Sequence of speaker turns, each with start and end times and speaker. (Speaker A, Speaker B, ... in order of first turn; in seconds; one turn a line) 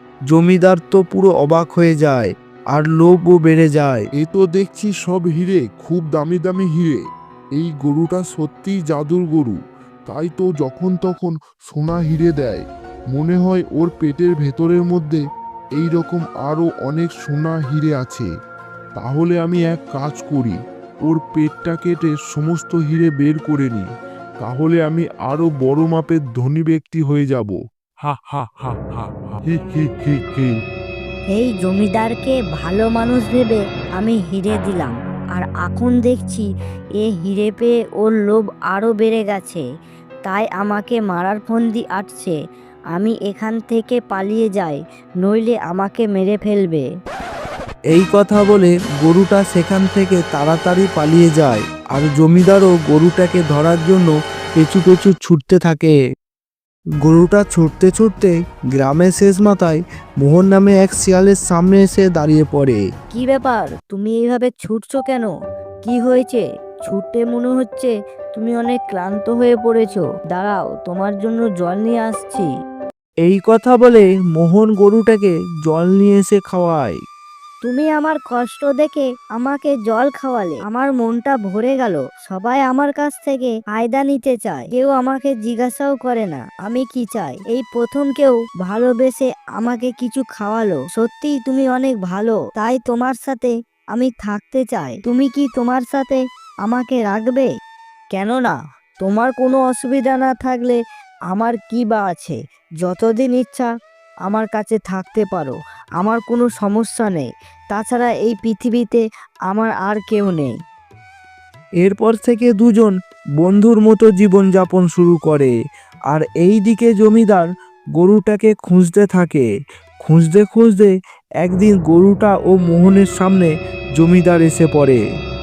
Speaker A: 0.3-4.0
Speaker B: 4.2-7.0
Speaker B: 7.6-15.2
Speaker B: 15.8-18.3
Speaker B: 18.9-20.6
Speaker B: 21.1-23.9
Speaker B: 24.4-30.5
Speaker C: 31.3-36.5
Speaker C: 37.0-39.6
Speaker C: 40.3-42.3
Speaker C: 42.9-46.8
Speaker A: 47.9-56.0
Speaker A: 57.0-62.8
Speaker C: 63.1-65.3
Speaker C: 65.8-72.5
Speaker A: 73.2-77.0
Speaker C: 77.6-97.5
Speaker C: 98.1-100.8
Speaker C: 101.3-103.7
Speaker C: 104.2-110.5
Speaker A: 111.8-115.5
Speaker A: 116.1-119.5
Speaker A: 120.0-125.0